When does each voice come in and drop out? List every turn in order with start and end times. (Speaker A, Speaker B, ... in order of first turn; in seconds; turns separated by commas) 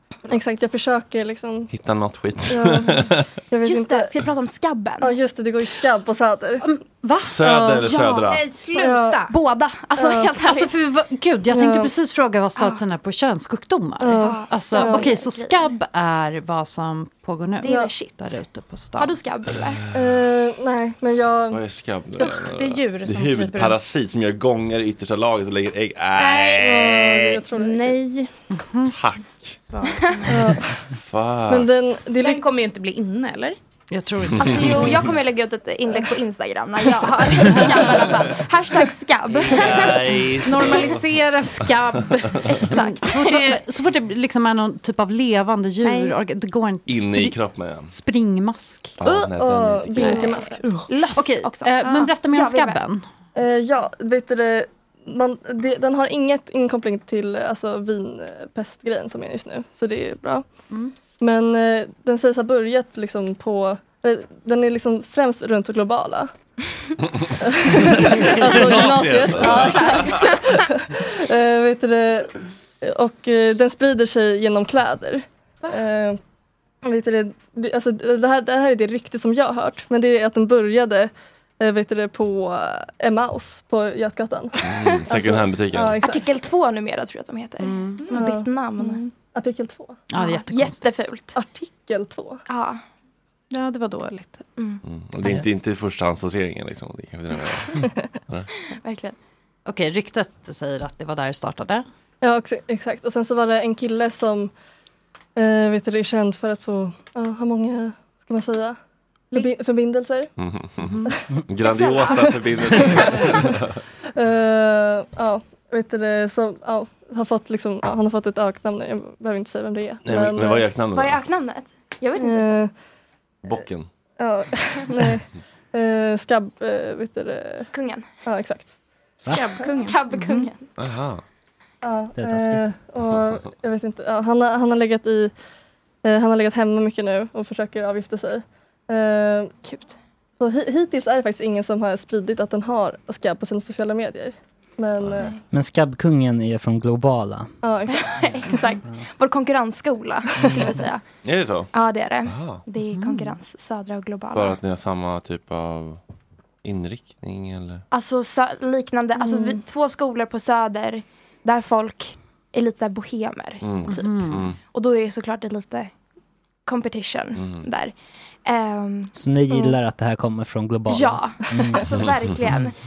Speaker A: 0.3-1.7, Speaker B: 1.7-3.2, Speaker A: 2.5-4.2, Speaker C: 3.6-5.2, Speaker A: 5.0-6.7, Speaker D: 6.6-7.9, Speaker B: 7.2-8.4, Speaker C: 7.8-10.7, Speaker E: 8.3-9.3, Speaker A: 8.8-9.2, Speaker A: 10.0-10.3, Speaker D: 10.4-19.2, Speaker A: 11.5-11.9, Speaker A: 14.0-15.1, Speaker C: 14.2-15.7, Speaker C: 17.6-18.4, Speaker A: 17.6-17.9, Speaker C: 19.0-19.9, Speaker A: 19.9-21.6, Speaker B: 21.5-27.4, Speaker E: 22.2-23.8, Speaker A: 26.2-28.0, Speaker E: 27.5-28.3, Speaker D: 28.5-28.9, Speaker B: 28.9-29.6, Speaker E: 29.7-30.4, Speaker C: 29.9-30.3, Speaker A: 30.3-30.6, Speaker B: 30.9-31.7, Speaker A: 31.5-32.5, Speaker E: 32.2-33.6, Speaker D: 33.9-35.1, Speaker B: 34.4-34.9, Speaker C: 34.4-40.8, Speaker D: 37.4-38.1, Speaker B: 39.3-41.1, Speaker E: 40.4-42.8, Speaker B: 41.7-42.5, Speaker C: 42.6-43.6, Speaker D: 42.7-47.4, Speaker E: 45.8-46.1, Speaker B: 46.9-47.9, Speaker D: 47.9-49.0, Speaker B: 49.0-50.2, Speaker A: 49.0-50.6, Speaker D: 50.0-50.4, Speaker C: 50.2-52.8, Speaker D: 51.1-53.0, Speaker E: 51.8-52.1, Speaker A: 53.4-60.5, Speaker A: 61.2-66.3, Speaker A: 67.4-76.2, Speaker B: 68.4-70.3, Speaker A: 76.8-86.2, Speaker B: 84.6-86.0, Speaker C: 86.0-89.0, Speaker D: 87.6-88.2, Speaker A: 88.1-88.5, Speaker E: 88.8-89.1, Speaker A: 89.3-90.0, Speaker D: 90.1-90.9, Speaker C: 90.2-91.4, Speaker A: 91.3-92.4, Speaker C: 92.5-92.8, Speaker E: 93.5-94.5, Speaker B: 94.8-98.5, Speaker C: 98.8-99.2, Speaker D: 99.7-101.8, Speaker A: 102.2-104.5, Speaker A: 105.4-108.8, Speaker A: 109.3-110.3, Speaker B: 110.4-110.9, Speaker D: 110.8-111.1, Speaker B: 111.5-113.7, Speaker C: 111.6-112.2, Speaker A: 111.9-113.2, Speaker A: 114.2-120.7, Speaker B: 120.0-121.2, Speaker C: 120.9-122.5, Speaker A: 122.2-122.7, Speaker B: 123.4-123.9, Speaker A: 124.2-127.7, Speaker C: 127.7-128.1, Speaker A: 128.2-128.7, Speaker E: 129.2-130.5, Speaker C: 129.6-130.6, Speaker B: 130.8-131.2, Speaker A: 131.8-135.3, Speaker F: 132.2-132.6, Speaker A: 136.0-139.5, Speaker C: 139.6-140.0, Speaker A: 140.4-145.3, Speaker F: 145.5-147.5, Speaker A: 147.6-148.7, Speaker C: 147.9-151.0, Speaker A: 150.4-150.8, Speaker B: 151.2-151.7, Speaker C: 151.7-154.6, Speaker B: 152.2-152.6, Speaker D: 152.9-153.3, Speaker B: 154.3-156.0, Speaker B: 156.6-157.8, Speaker C: 157.9-165.9, Speaker A: 159.2-159.6, Speaker B: 163.6-164.6, Speaker D: 163.9-164.5, Speaker C: 166.7-169.1, Speaker B: 167.4-167.7, Speaker F: 169.2-172.0, Speaker A: 169.5-169.8, Speaker C: 170.9-172.8